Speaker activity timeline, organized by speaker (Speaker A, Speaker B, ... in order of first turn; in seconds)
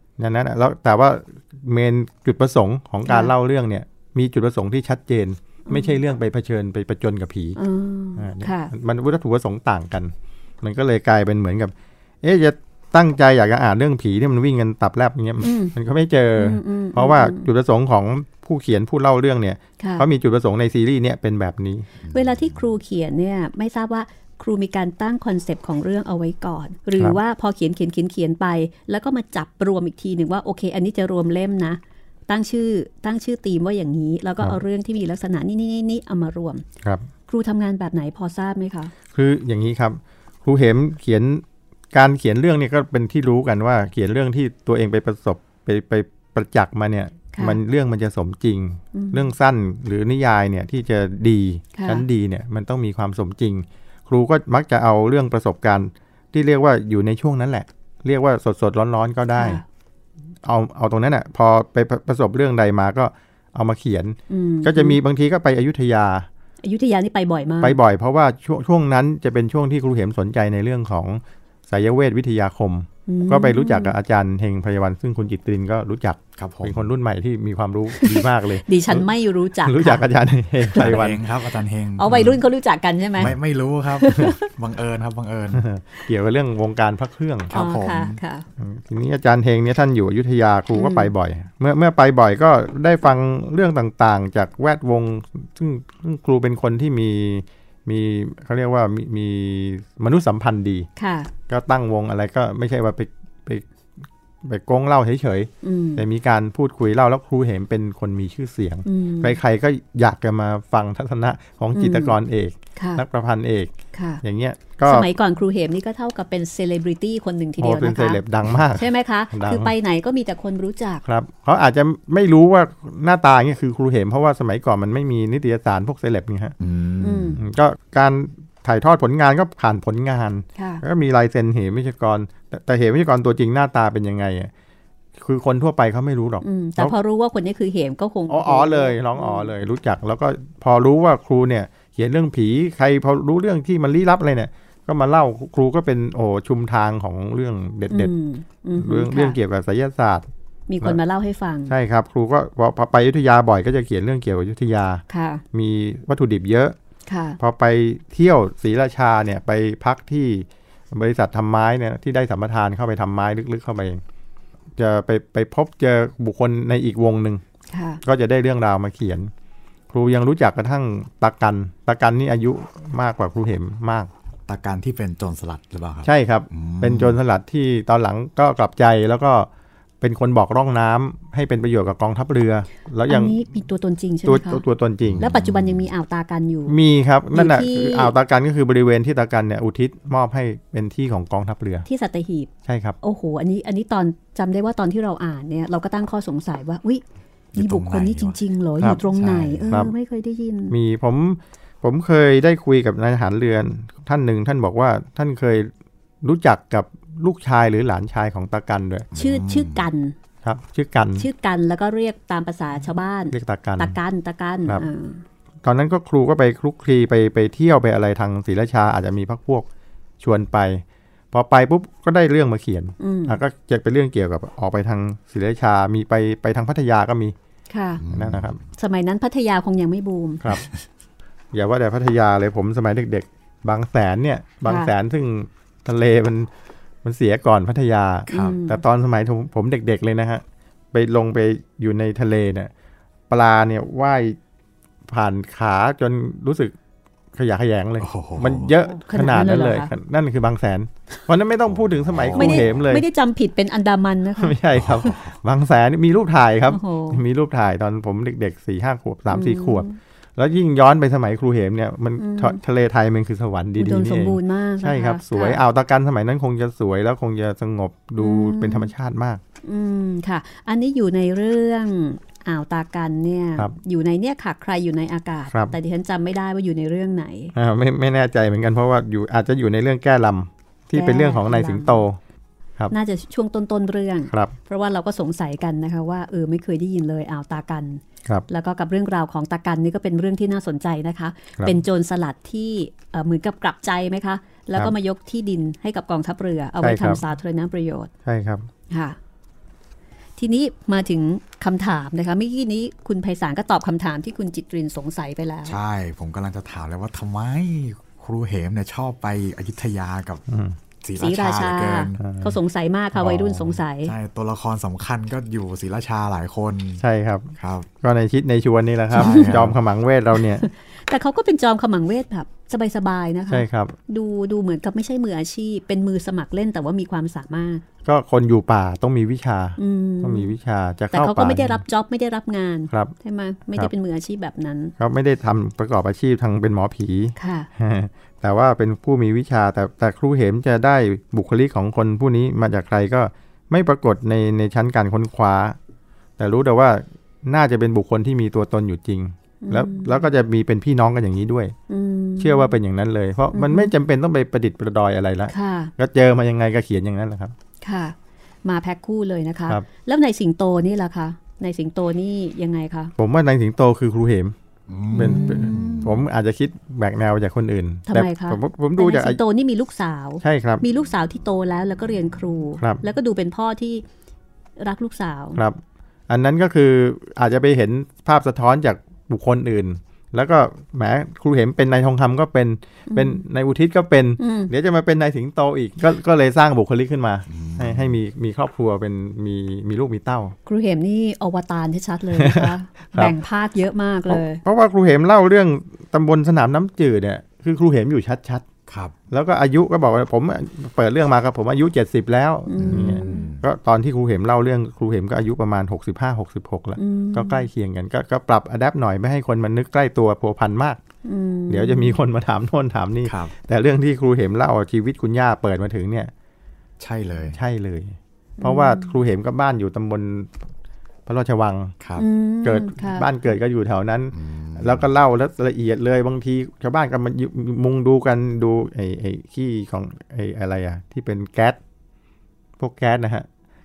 Speaker A: 0.2-7.6, 8.2-21.9, 36.8-37.1, 39.1-59.6, 60.4-66.3, 67.6-79.1, 79.6-81.2, 85.5-87.5, 88.6-100.9, 101.5-103.6, 104.4-115.1, 117.6-119.7, 121.0-126.5, 127.4-134.5, 135.2-136.9, 138.3-148.1, 148.8-150.3, 151.7-156.8, 157.4-164.0, 164.8-167.4, 168.0-169.3, 169.9-174.1, 176.0-179.5, 180.0-183.4, 184.2-185.3, 186.7-191.8, 192.7-193.0, 200.7-209.1, 210.4-211.3, 213.3-214.0, 215.6-219.7, 220.2-227.3, 228.1-228.6, 231.5-236.5, 237.0-242.7, 243.3-244.4, 245.1-246.7, 247.3-253.0, 254.4-269.4, 277.5-282.2, 296.8-297.2, 298.2-298.7, 310.5-310.8, 312.2-312.6, 313.1-313.6, 317.0-320.7, 323.5-323.9, 328.0-331.8, 335.0-345.8, 346.4-351.7, 352.4-357.5, 363.2-364.5, 365.1-369.4, 370.4-370.8, 375.6-390.5, 392.3-393.4, 394.3-398.6, 399.3-411.0, 411.7-416.3, 417.5-420.7, 421.2-421.9, 422.6-431.8, 432.8-433.5
Speaker B: 3.1-3.3, 5.7-6.0, 7.5-8.7, 15.4-15.7, 16.4-17.5, 19.8-20.1, 22.1-36.6, 37.3-38.9, 47.3-47.6, 48.9-49.3, 51.7-52.0, 59.4-59.6, 64.3-65.0, 66.6-67.8, 73.1-73.9, 77.9-80.1, 80.7-81.0, 82.0-83.4, 83.9-84.5, 87.5-88.5, 90.7-91.1, 101.0-101.3, 105.6-106.0, 108.8-109.4, 111.7-112.2, 112.8-113.0, 113.9-114.2, 114.8-121.0, 127.0-127.4, 130.6-130.8, 136.4-139.5, 147.9-149.4, 150.7-151.7, 155.1-155.4, 157.1-157.4, 167.7-168.0, 183.1-184.6, 185.2-186.8, 187.3-188.1, 191.8-192.5, 193.0-197.0, 197.5-200.7, 209.1-210.1, 211.2-215.2, 223.0-223.4, 227.7-228.0, 228.7-230.6, 234.6-234.9, 238.3-238.8, 248.8-249.9, 252.3-254.6, 256.7-257.2, 259.3-260.0, 262.2-262.6, 263.8-265.6, 268.2-268.9, 269.6-277.5, 280.9-282.0, 282.9-298.1, 298.9-299.2, 300.4-305.8, 311.2-314.1, 319.2-319.5, 320.4-327.8, 329.8-330.5, 331.1-334.9, 337.4-337.7, 349.6-350.3, 351.9-352.7, 353.5-353.9, 355.5-355.9, 357.8-363.1, 365.1-366.2, 368.1-374.0, 374.8-375.6, 383.1-383.4, 384.4-384.7, 390.6-394.6, 402.7-403.5, 407.0-407.7, 411.2-412.2, 418.6-419.1, 422.2-423.3
Speaker C: 22.0-22.6, 76.4-76.9, 80.7-82.3, 83.2-85.7, 87.5-88.2, 126.6-127.4, 174.5-177.2, 185.0-185.9, 197.5-198.4, 199.0-199.8, 209.1-209.9, 228.0-228.6, 238.3-238.6, 248.0-248.7, 251.7-252.9, 254.7-255.3, 305.6-310.4, 311.0-312.2, 314.0-317.0, 317.6-317.9, 319.1-319.8, 364.9-366.1, 387.5-388.1, 398.9-399.1, 402.8-403.6, 413.2-413.5, 417.0-417.6, 422.0-422.2, 424.3-425.1